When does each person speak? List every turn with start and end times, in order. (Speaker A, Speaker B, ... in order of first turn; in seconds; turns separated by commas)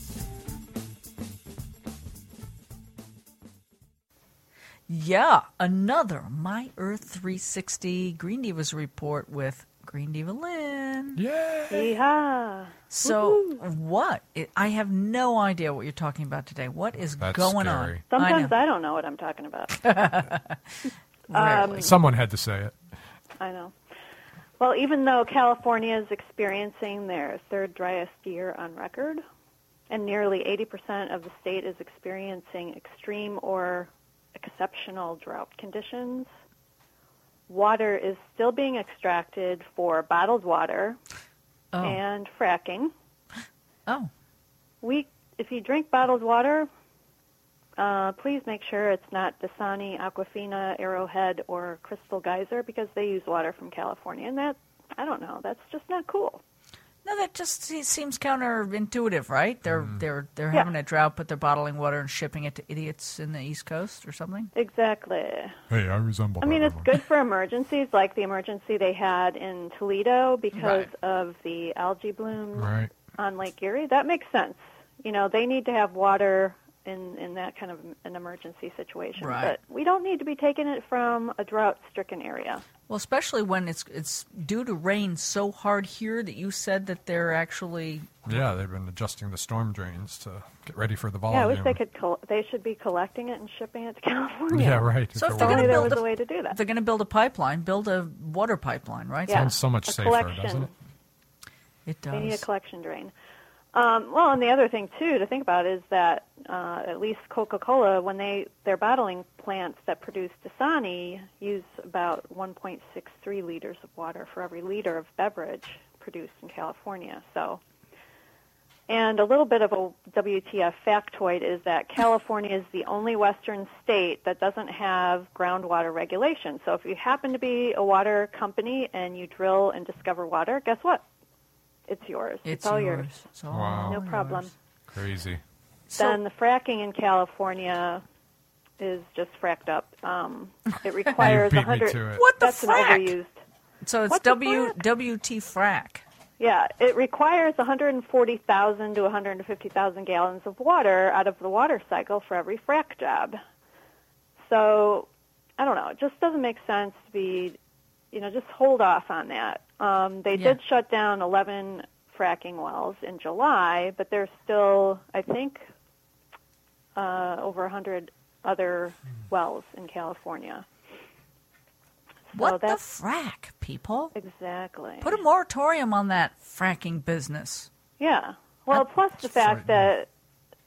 Speaker A: 4.9-11.2, Speaker B: 11.2-11.9, Speaker C: 11.7-13.6, Speaker A: 12.9-18.5, Speaker B: 17.2-18.0, Speaker C: 18.1-19.9, Speaker A: 19.8-20.6, Speaker A: 21.3-21.9, Speaker C: 21.3-21.9, Speaker B: 21.7-22.8, Speaker C: 23.4-23.7, Speaker C: 24.6-29.2, Speaker C: 29.9-36.3, Speaker C: 37.5-41.0, Speaker A: 41.7-42.0, Speaker C: 41.8-42.9, Speaker C: 44.8-46.7, Speaker C: 47.8-56.4, Speaker A: 57.0-64.5, Speaker C: 64.5-65.6, Speaker B: 65.7-66.9, Speaker C: 66.4-82.6, Speaker A: 70.5-70.9, Speaker B: 72.6-72.9, Speaker A: 79.2-79.6, Speaker A: 82.9-88.3, Speaker B: 88.3-91.8, Speaker C: 91.3-96.6, Speaker B: 94.5-96.0, Speaker A: 95.1-99.5, Speaker C: 99.3-100.7, Speaker B: 99.3-100.7, Speaker A: 101.9-102.5, Speaker C: 102.1-103.1, Speaker C: 103.7-117.6, Speaker C: 118.9-131.0, Speaker C: 131.9-133.2, Speaker A: 132.4-134.5, Speaker B: 133.5-134.0, Speaker C: 133.8-134.5, Speaker B: 134.9-135.4, Speaker A: 135.9-136.2, Speaker C: 135.9-138.0, Speaker C: 138.8-143.4, Speaker B: 141.2-142.2, Speaker A: 142.1-143.2, Speaker A: 143.8-146.0, Speaker C: 144.1-144.8, Speaker C: 146.4-153.4, Speaker C: 154.4-157.6, Speaker C: 158.1-165.6, Speaker C: 166.9-170.6, Speaker C: 172.3-172.8, Speaker A: 172.3-174.1, Speaker C: 174.1-175.2, Speaker A: 175.0-177.7, Speaker C: 178.0-180.1, Speaker B: 179.4-179.6